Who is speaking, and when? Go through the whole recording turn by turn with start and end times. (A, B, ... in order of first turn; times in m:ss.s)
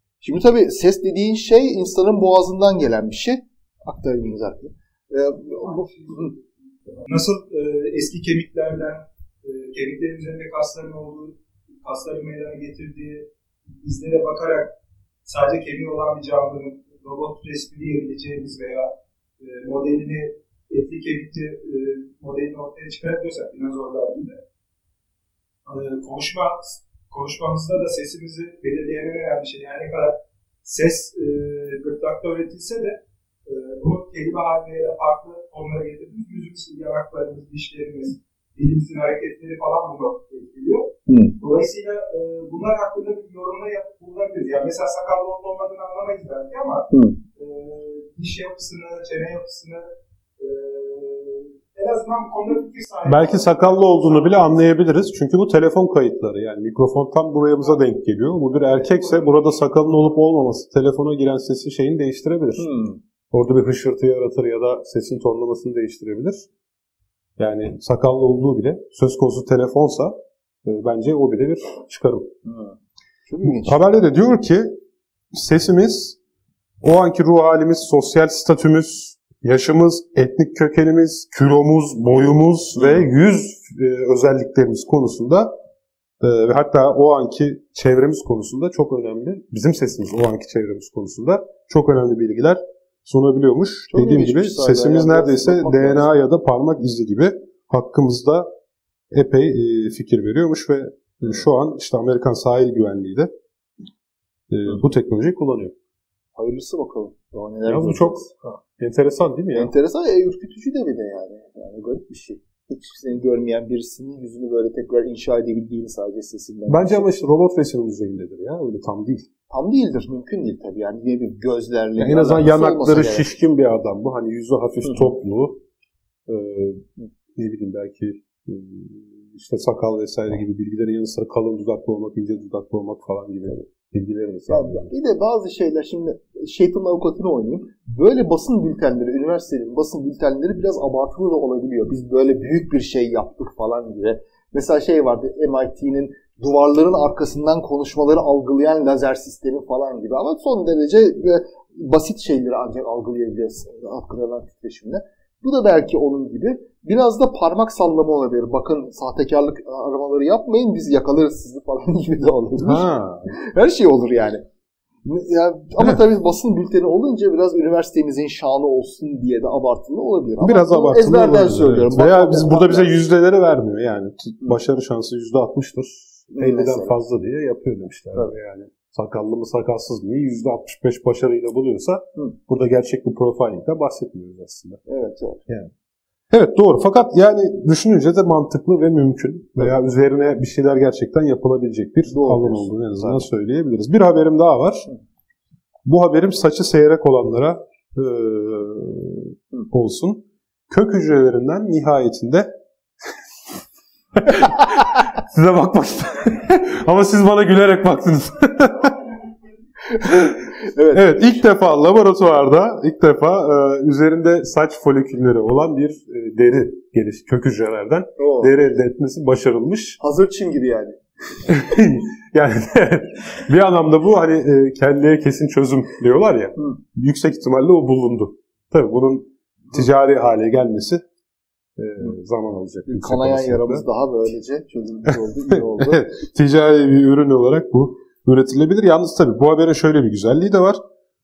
0:00.2-0:06.3 A
0:05.5-0:13.3 B
0:13.8-0:14.7 B
0:15.2-0:24.4 B
0:25.7-0:54.5 B
0:41.1-0:41.4 A
0:46.9-0:47.2 A
0:53.0-1:02.7 C
1:02.6-1:03.0 A
1:03.3-1:06.5 C
1:07.4-1:12.3 C
1:12.4-1:13.9 A
1:13.4-1:14.8 C
1:15.3-1:16.2 C
1:16.8-1:25.6 C
1:22.8-1:23.0 A
1:26.2-1:38.5 C
1:33.9-1:36.1 A
1:39.1-1:43.3 C
1:44.5-1:45.7 C
1:46.4-1:48.3 A
1:47.6-1:49.7 C
1:49.5-1:57.1 A
1:56.7-1:59.3 C
1:59.5-2:03.3 A
2:02.0-2:05.6 C
2:04.8-2:05.1 A
2:06.3-2:14.9 C
2:14.5-2:44.4 A
2:42.6-2:43.3 C
2:45.0-2:52.9 A
2:50.4-3:04.8 C
2:56.3-2:56.9 A
3:04.8-3:05.4 A
3:05.5-3:05.7 C
3:06.3-3:14.9 C
3:12.0-3:13.3 A
3:15.8-3:22.5 C
3:24.2-3:29.1 C
3:29.9-3:31.3 A
3:30.1-3:30.4 C
3:30.9-3:40.0 C
3:38.2-3:38.5 A
3:40.0-3:41.0 A
3:41.5-3:51.0 C
3:51.8-3:53.8 C
3:52.9-3:56.0 A
3:55.1-4:00.8 C